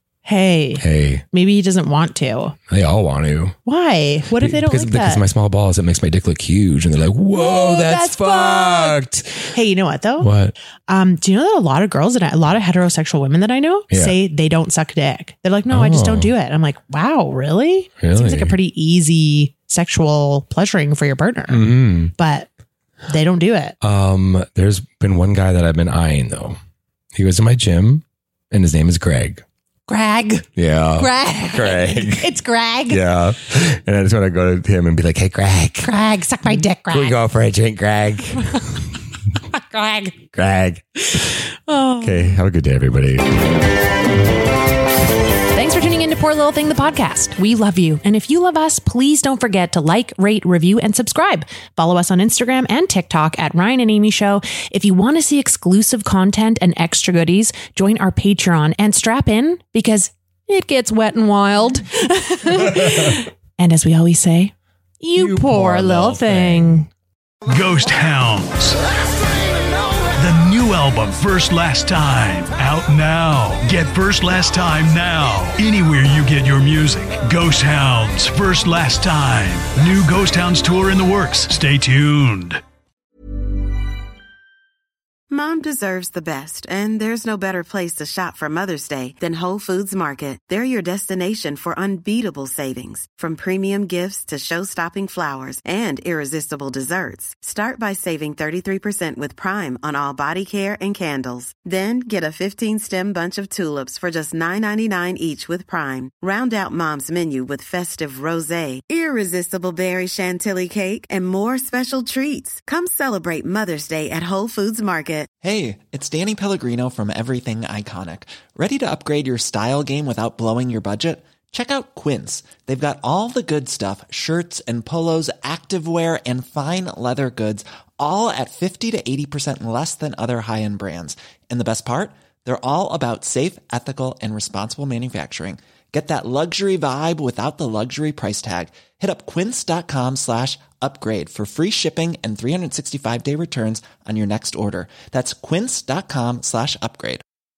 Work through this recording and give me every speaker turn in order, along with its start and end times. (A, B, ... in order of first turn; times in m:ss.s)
0:00.2-0:02.6 A
0:00.8-0:01.2 B
0:02.7-0:03.6 B
0:03.7-0:05.2 A
0:04.3-0:09.5 B
0:07.3-0:10.3 A
0:10.2-0:10.6 B
0:10.9-0:22.5 A
0:13.9-0:14.2 B
0:15.7-0:16.3 B
0:18.0-0:18.6 B
0:21.5-0:22.1 B
0:23.1-0:23.8 A
0:23.8-0:26.6 B
0:27.1-0:29.4 B
0:29.9-0:33.0 A
0:30.6-0:32.3 B
0:32.9-0:35.9 B
0:35.8-0:37.2 A
0:36.9-0:38.8 B
0:39.5-0:40.2 A
0:40.3-0:41.2 B
0:41.0-0:42.4 A
0:42.0-0:43.5 B
0:45.5-1:06.9 A
1:05.2-1:06.8 B
1:07.4-1:08.8 C
1:10.2-1:22.6 C
1:25.3-1:55.3 D
1:55.4-2:27.2 E